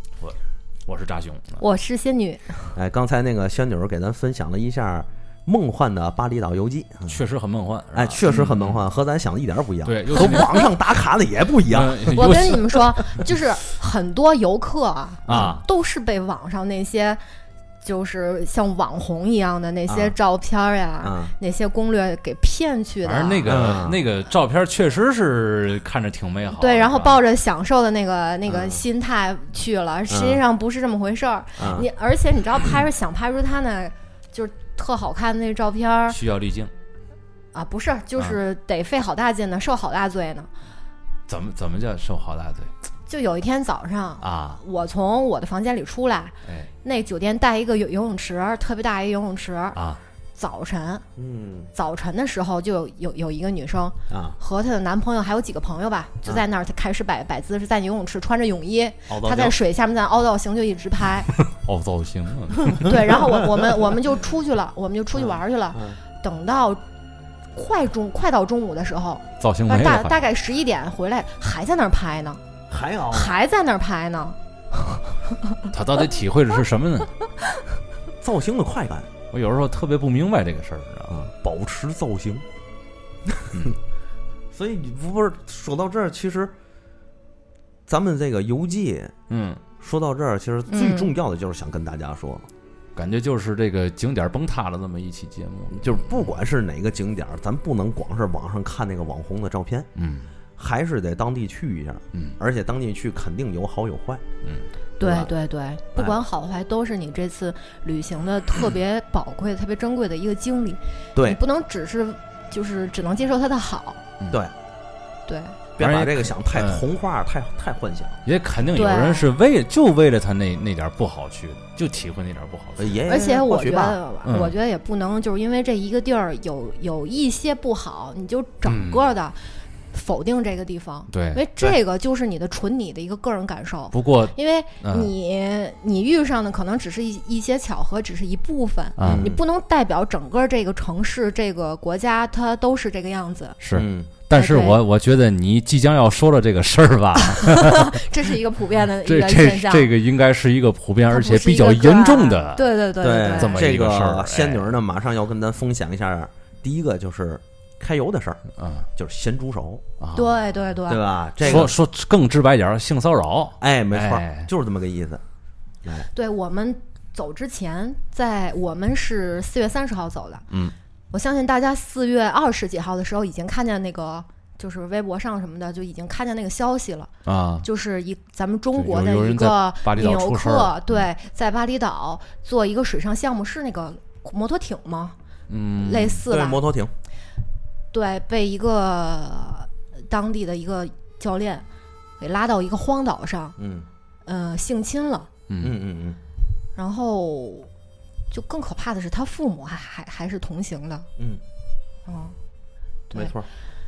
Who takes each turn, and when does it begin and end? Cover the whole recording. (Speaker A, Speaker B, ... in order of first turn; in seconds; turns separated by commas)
Speaker A: 0.2-1.6, Speaker B: 1.6-2.7, Speaker C: 2.7-7.2, Speaker A: 7.1-8.8, Speaker C: 7.9-12.6, Speaker A: 9.8-10.7, Speaker A: 11.7-12.9, Speaker B: 12.1-17.2, Speaker A: 15.3-15.6, Speaker C: 15.3-15.6, Speaker B: 17.8-23.7, Speaker C: 19.9-20.1, Speaker C: 21.0-21.3, Speaker A: 23.0-27.2, Speaker C: 23.4-24.0, Speaker B: 26.5-36.2, Speaker C: 28.5-28.8, Speaker C: 30.1-30.4, Speaker C: 31.6-31.9, Speaker A: 36.1-36.7, Speaker B: 37.5-40.5, Speaker A: 41.3-42.7, Speaker B: 43.1-49.8, Speaker A: 44.2-44.6, Speaker A: 49.7-50.0, Speaker B: 50.4-51.0, Speaker C: 51.1-51.7, Speaker B: 51.7-61.3, Speaker C: 54.1-54.4, Speaker C: 59.1-59.6, Speaker A: 61.5-63.0, Speaker B: 62.8-66.8, Speaker C: 65.2-66.0, Speaker B: 67.5-72.4, Speaker A: 69.4-70.2, Speaker C: 72.7-73.4, Speaker B: 73.1-74.4, Speaker B: 75.3-75.6, Speaker A: 75.7-77.1, Speaker C: 78.2-79.1, Speaker A: 79.3-81.2, Speaker C: 81.1-82.4, Speaker C: 83.2-83.7, Speaker C: 84.5-86.5, Speaker C: 87.9-89.2, Speaker A: 89.3-89.6, Speaker C: 89.8-92.5, Speaker B: 90.7-91.1, Speaker A: 93.0-96.2, Speaker C: 95.7-99.9, Speaker A: 100.0-100.3, Speaker C: 100.6-104.2, Speaker B: 105.0-114.0, Speaker C: 105.0-105.3, Speaker B: 115.3-115.6, Speaker C: 115.8-118.2, Speaker A: 115.8-116.8, Speaker A: 118.2-122.9, Speaker B: 118.7-119.3, Speaker C: 122.8-124.0, Speaker B: 123.1-129.4, Speaker A: 124.2-124.5, Speaker A: 128.7-129.1, Speaker B: 129.9-143.6, Speaker A: 131.1-131.8, Speaker A: 133.9-135.1, Speaker A: 139.0-139.3, Speaker C: 139.0-139.4, Speaker A: 143.6-148.0, Speaker C: 143.7-144.1, Speaker B: 144.3-144.8, Speaker B: 147.3-149.9, Speaker A: 149.1-152.7, Speaker B: 151.1-153.6, Speaker C: 153.0-158.4, Speaker A: 153.4-154.7, Speaker A: 158.6-158.9, Speaker C: 159.0-159.8, Speaker A: 160.0-160.3, Speaker B: 160.1-161.7, Speaker C: 160.9-161.8, Speaker A: 161.4-164.5, Speaker C: 163.6-165.2, Speaker B: 166.1-170.5, Speaker A: 170.5-170.8, Speaker B: 171.1-185.2, Speaker A: 177.2-177.7, Speaker A: 178.8-180.8, Speaker A: 185.5-186.2, Speaker B: 185.8-186.6, Speaker C: 186.3-186.9, Speaker B: 187.9-191.7, Speaker B: 192.2-193.6, Speaker C: 193.6-193.9, Speaker B: 194.2-195.3, Speaker A: 195.5-195.8, Speaker C: 195.6-196.2, Speaker B: 196.8-197.7, Speaker B: 198.3-201.1, Speaker C: 201.2-201.4, Speaker B: 202.1-202.4, Speaker B: 203.1-203.3, Speaker C: 203.1-203.5